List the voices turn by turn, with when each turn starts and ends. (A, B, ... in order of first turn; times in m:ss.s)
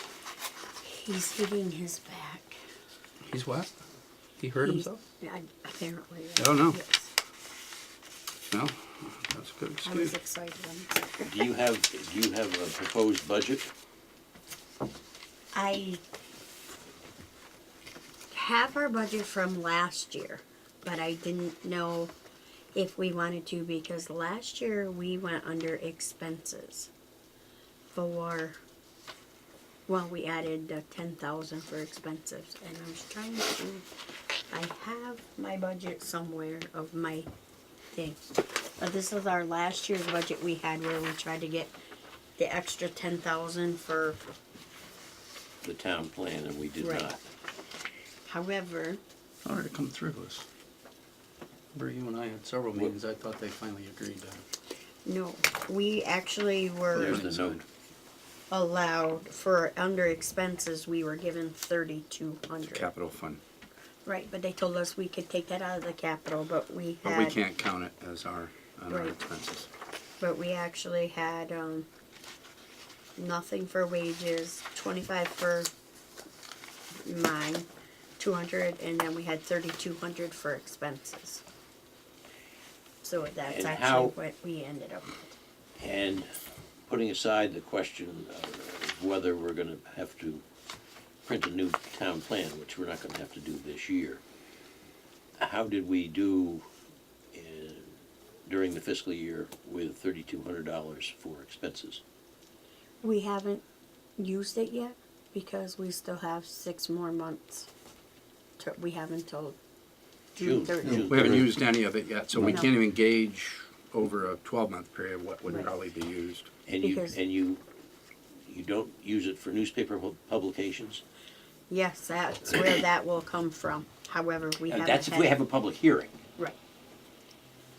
0:00.8-0:02.6 A
0:03.3-0:03.7 B
0:04.4-0:05.0 B
0:04.6-0:07.1 A
0:06.4-0:06.8 B
0:08.5-0:10.1 B
0:09.8-0:11.1 A
0:11.2-0:13.7 C
0:15.5-0:16.0 A
0:18.3-0:22.1 A
0:22.8-0:26.9 A
0:27.9-0:28.6 A
0:29.9-0:33.9 A
0:34.5-0:37.3 A
0:37.9-0:41.7 A
0:42.4-0:44.2 A
0:45.6-0:47.2 C
0:46.8-0:47.1 A
0:48.3-0:49.0 A
0:49.4-0:50.4 B
0:51.7-0:54.4 B
0:55.0-0:57.2 A
0:57.0-0:57.6 B
0:57.0-0:57.6 C
0:58.5-1:02.9 A
1:02.6-1:03.4 B
1:04.0-1:07.4 A
1:07.0-1:09.7 B
1:10.2-1:11.9 A
1:13.2-1:15.7 A
1:17.0-1:21.4 A
1:23.0-1:25.3 A
1:23.4-1:24.1 C
1:25.8-1:26.3 C
1:26.9-1:30.4 C
1:31.2-1:34.2 C
1:35.4-1:36.6 C
1:37.3-1:42.0 C
1:43.0-1:43.6 A
1:44.2-1:47.7 A
1:48.6-1:49.6 A
1:50.4-1:51.3 A
1:50.4-1:51.5 C
1:50.9-1:56.5 B
1:52.4-1:52.7 A
1:56.7-1:57.6 C
1:56.8-1:57.2 A
1:58.4-2:01.0 C
2:01.7-2:05.4 A
2:04.7-2:06.2 C